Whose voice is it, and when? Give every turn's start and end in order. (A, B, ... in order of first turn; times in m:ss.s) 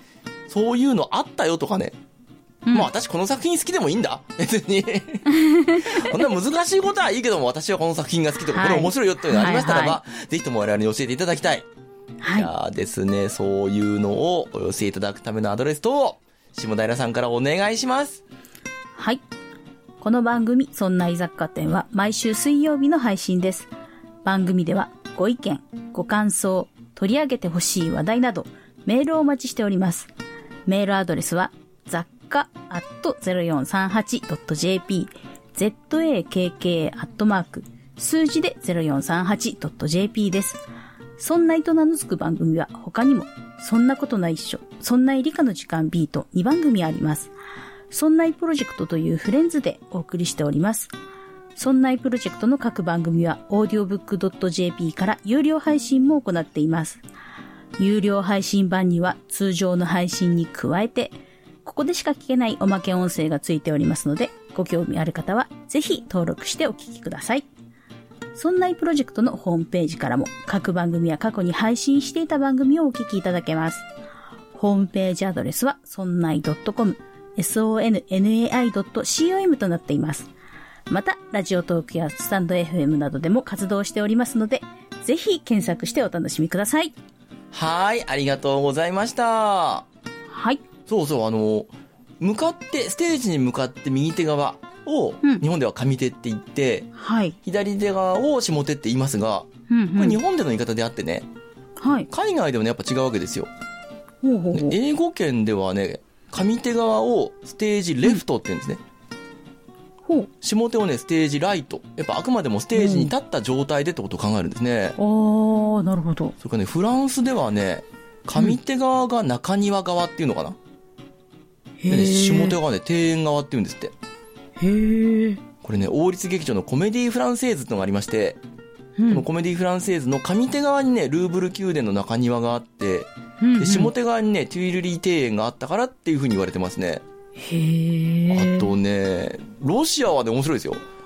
0:00.5-0:01.9 A
0:02.7-0:11.7 A
0:05.3-0:06.2 B
0:08.5-0:10.0 B
0:12.2-0:12.5 B
0:12.3-0:18.2 A
0:19.0-0:19.2 B
0:20.0-0:23.7 B
0:24.2-0:30.1 B
0:30.7-0:40.6 B
0:41.2-0:47.3 B
0:47.9-0:50.9 B
0:51.6-0:57.0 B
0:57.8-1:07.5 B
1:08.4-1:13.9 B
1:14.5-1:20.3 B
1:20.9-1:26.9 B
1:27.5-1:29.9 A
1:30.3-1:30.6 B
1:30.9-1:36.9 A
1:37.0-1:37.4 B
1:37.4-1:41.3 A
1:39.7-1:40.2 B
1:41.8-1:42.1 B
1:42.1-1:43.5 A
1:44.2-1:44.8 B
1:44.5-1:48.8 A
1:50.0-1:50.3 B
1:50.4-1:55.0 A
1:52.8-1:53.1 B
1:55.0-1:56.4 B
1:56.4-2:00.6 A
2:01.8-2:02.6 B
2:01.9-2:03.9 A
2:04.6-2:05.4 B
2:05.6-2:08.4 A
2:09.0-2:09.3 B
2:09.1-2:17.0 A
2:13.4-2:13.9 B
2:17.4-2:18.7 B
2:18.3-2:20.8 A